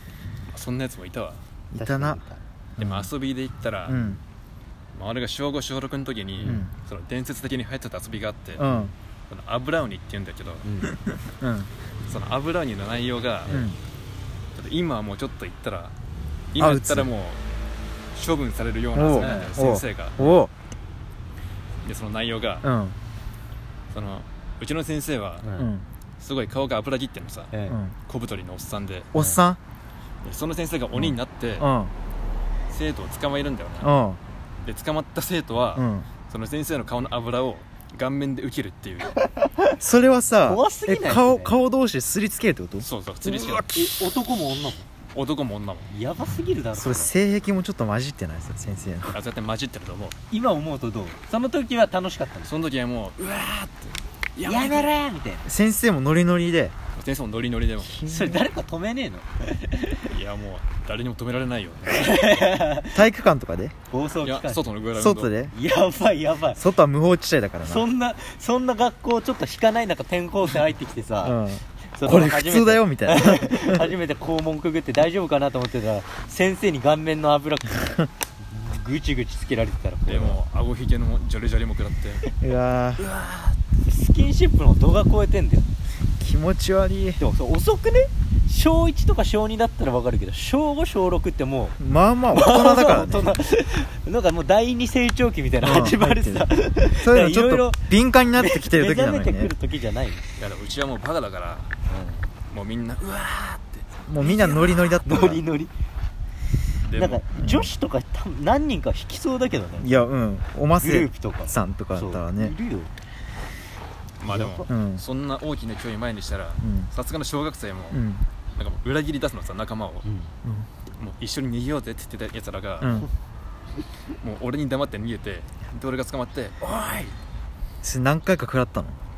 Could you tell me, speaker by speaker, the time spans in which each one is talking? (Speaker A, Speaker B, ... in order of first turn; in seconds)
Speaker A: 0.5-1.4, 2.8-4.0, 4.9-8.6, 9.3-10.7, 12.1-13.6, 14.5-15.9, 16.5-17.4, 18.1-20.2, 21.8-22.6, 23.9-25.4, 26.2-27.5, 28.1-29.1, 30.2-31.7, 32.7-33.9, 34.6-39.1, 42.8-44.0, 45.1-45.9, 49.1-50.1, 52.4-54.9, 57.0-58.0, 60.1-62.2, 64.2-65.3, 80.1-82.2, 100.4-101.7, 102.5-103.9, 106.8-107.2, 114.2-118.0, 118.6-120.0, 121.0-123.0, 124.2-127.1
Speaker B: 1.7-2.2, 2.8-3.1, 3.9-4.2, 6.4-6.7, 8.6-8.9, 11.4-11.7, 13.5-13.8, 16.6-17.1, 18.9-20.5, 22.6-23.0, 25.6-25.9, 27.7-27.9, 29.1-29.6, 30.9-31.9, 33.8-34.2, 35.7-36.1, 39.8-42.9, 46.8-49.2, 55.5-56.7, 57.8-58.4, 62.9-63.7, 65.0-65.5, 66.5-67.8, 71.2-73.9, 82.4-83.1, 86.2-87.2, 91.8-93.4, 95.6-99.5, 104.1-105.4, 107.3-107.7, 109.8-112.5, 114.7-115.0, 116.6-116.9, 117.9-118.2, 122.8-123.1, 127.8-129.0
Speaker C: 1.7-2.4, 8.6-8.9, 10.6-10.9, 13.4-13.7, 19.1-19.5, 25.4-25.7, 27.5-27.8, 40.5-41.5, 43.3-44.9, 45.9-47.1, 50.3-52.5, 54.4-55.5, 58.1-60.0, 61.9-63.0, 63.9-64.7, 65.5-66.6, 67.6-71.4, 71.9-80.4, 83.0-85.7, 87.2-91.8, 92.3-100.2, 101.9-102.3, 104.2-105.7, 106.9-110.0, 110.8-112.9, 114.3-114.7, 120.0-120.3